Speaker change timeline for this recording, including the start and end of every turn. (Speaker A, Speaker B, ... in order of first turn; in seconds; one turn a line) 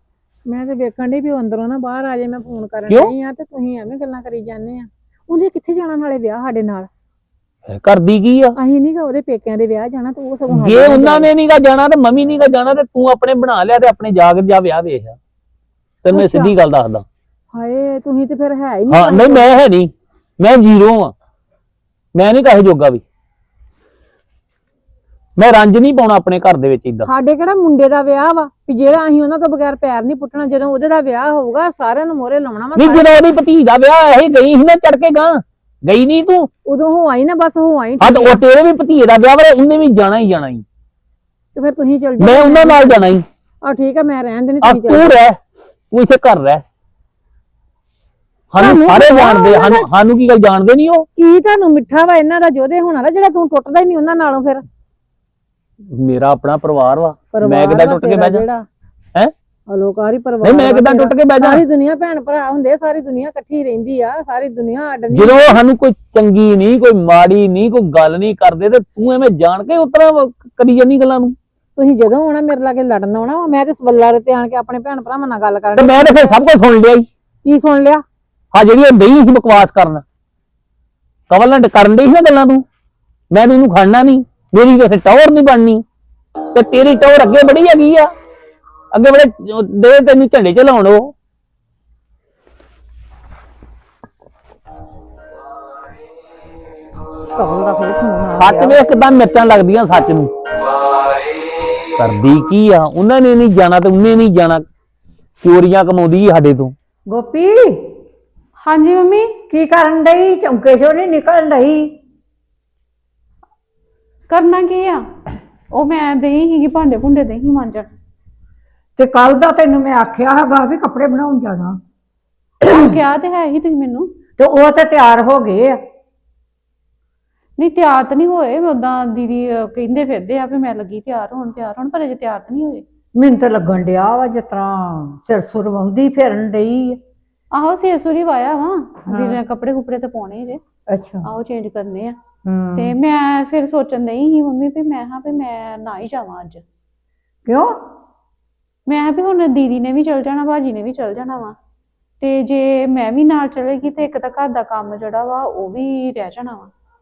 Speaker A: 0.5-6.9
Speaker B: 2.9-3.1
Speaker B: 7.7-8.5
Speaker A: 8.6-11.3
Speaker B: 10.5-15.2
Speaker B: 16.0-17.0
Speaker A: 16.1-16.5
Speaker A: 17.5-19.5
Speaker B: 18.9-21.1
Speaker B: 22.1-23.0
Speaker B: 25.4-27.1
Speaker A: 27.0-33.1
Speaker B: 32.8-36.5
Speaker A: 36.6-38.4
Speaker B: 38.0-40.6
Speaker A: 41.5-43.0
Speaker B: 42.2-43.2
Speaker A: 43.6-45.1
Speaker B: 44.6-45.4
Speaker B: 45.9-46.6
Speaker B: 48.5-51.1
Speaker A: 48.6-49.8
Speaker A: 51.2-54.6
Speaker B: 55.9-58.4
Speaker A: 57.3-58.7
Speaker A: 59.7-65.6
Speaker B: 60.4-61.6
Speaker B: 65.1-71.3
Speaker A: 71.8-76.4
Speaker B: 75.8-77.0
Speaker A: 77.4-78.0
Speaker B: 78.5-80.0
Speaker B: 81.3-82.6
Speaker B: 83.3-85.8
Speaker B: 86.5-88.1
Speaker B: 88.9-91.1
Speaker A: 97.3-98.8
Speaker B: 98.3-100.3
Speaker B: 102.0-104.6
Speaker B: 105.4-106.7
Speaker C: 107.1-107.8
Speaker D: 108.6-109.4
Speaker C: 109.5-111.9
Speaker D: 114.3-115.0
Speaker D: 115.7-117.9
Speaker C: 119.0-121.8
Speaker D: 122.6-124.1
Speaker C: 124.4-125.7
Speaker D: 127.6-132.8
Speaker C: 133.2-137.0
Speaker D: 137.5-140.6
Speaker C: 139.1-139.4
Speaker C: 140.9-141.2
Speaker D: 141.2-142.1
Speaker C: 142.4-142.9
Speaker D: 142.8-146.6
Speaker C: 147.5-147.8
Speaker D: 148.9-151.5
Speaker D: 152.2-156.7